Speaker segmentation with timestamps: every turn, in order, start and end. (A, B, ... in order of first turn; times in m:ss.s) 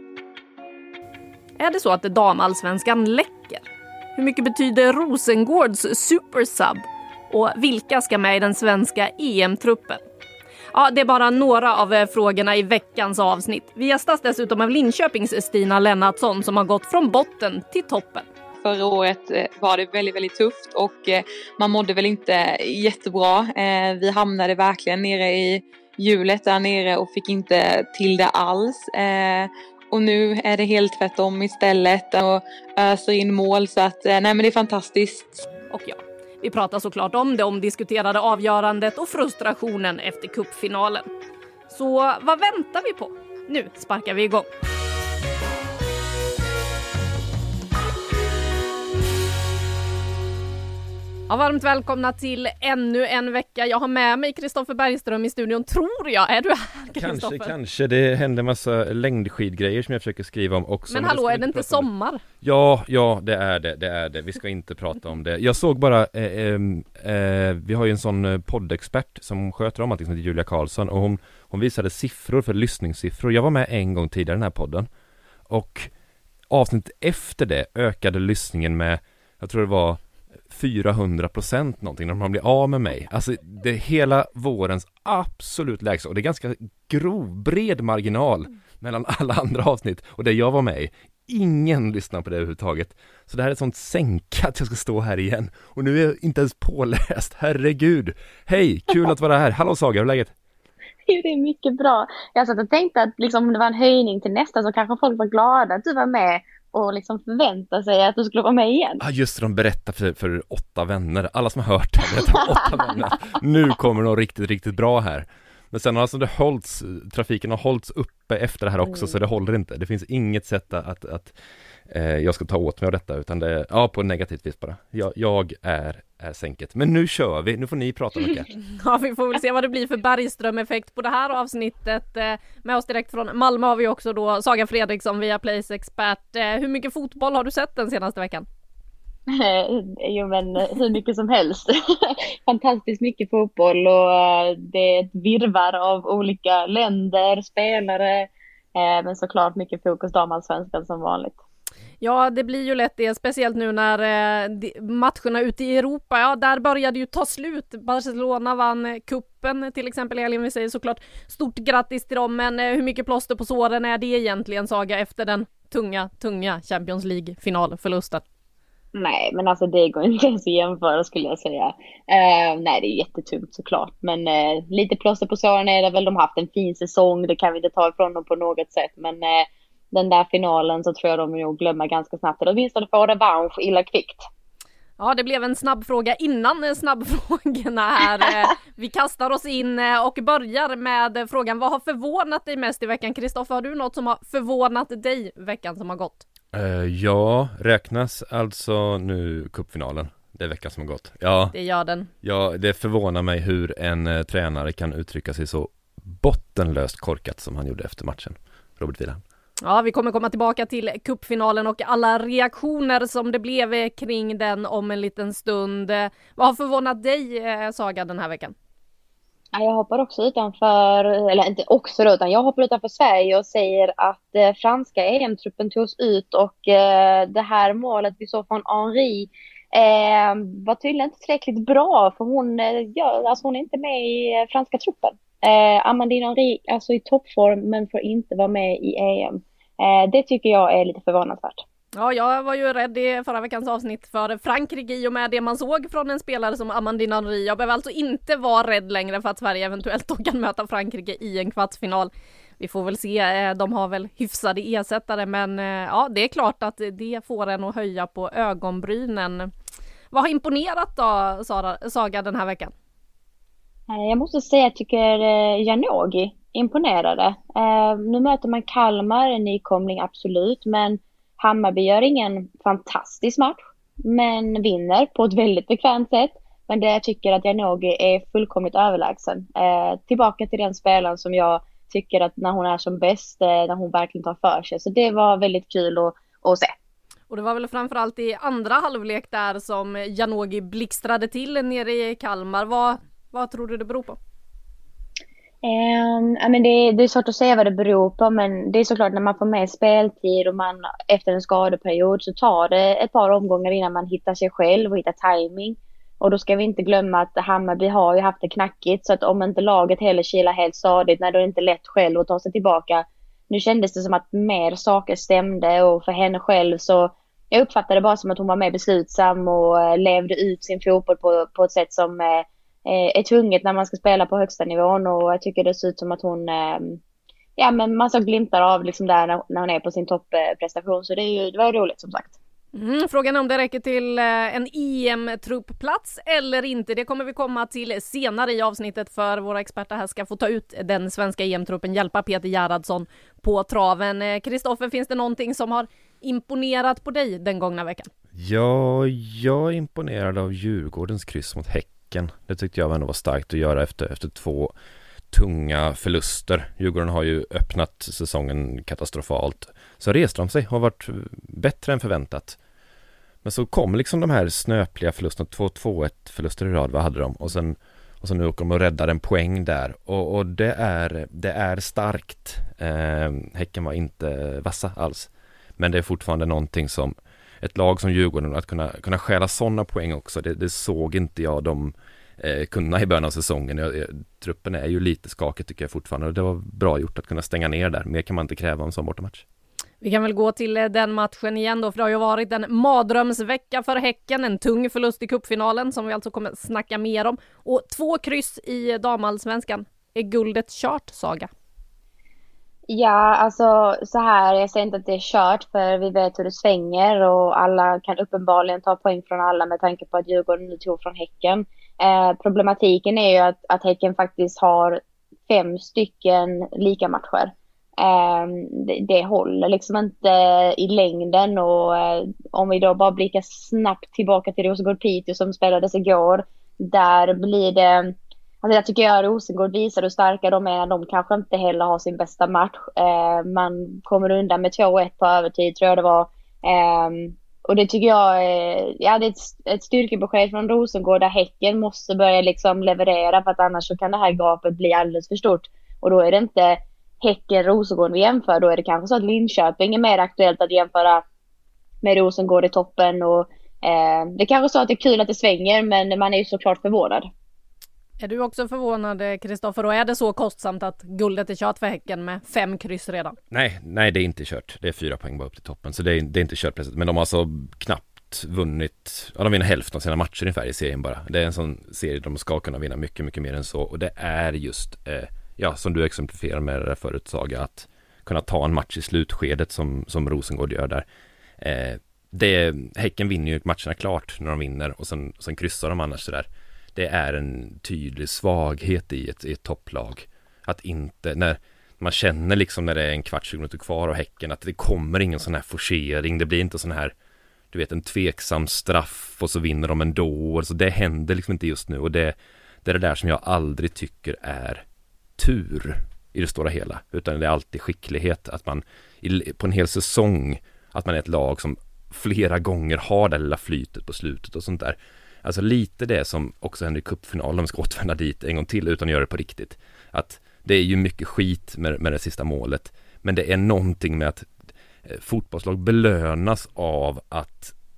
0:01.6-0:03.6 A
0:04.2-0:10.0 A
0:10.7-0:18.2 A
0:18.6-0:35.4 B
0:35.7-0:41.1 A
0:41.7-0:44.5 A
0:51.3-0:57.5 A
0:56.9-1:01.9 C
1:00.9-1:02.2 A
1:02.4-1:14.9 C
1:15.5-1:15.9 C
1:16.5-1:40.3 C
1:41.1-1:49.0 D
1:49.0-2:01.3 C
2:01.9-2:08.5 C
2:08.7-2:18.5 A
2:19.3-2:31.4 D
2:32.0-2:48.2 A
2:48.9-3:04.3 D
3:05.0-3:16.2 A
3:16.5-3:21.5 C
3:21.5-3:22.1 A
3:22.2-3:29.2 C
3:29.6-3:38.5 A
3:39.5-4:01.6 D
4:02.0-4:19.5 A
4:20.1-4:22.7 A
4:23.9-4:46.7 D
4:47.3-4:54.2 A
4:55.6-5:27.0 D
5:27.6-5:32.3 D
5:32.7-5:48.1 A
5:48.3-5:54.7 C
5:55.3-6:02.6 C
6:03.4-6:29.4 C
6:30.0-6:41.5 A
6:42.9-7:31.2 D
7:32.0-7:37.3 D
7:38.2-7:43.4 A
7:43.5-8:01.0 C
8:01.6-8:17.1 C
8:17.7-8:24.8 C
8:25.4-8:44.5 C
8:45.0-8:47.7 C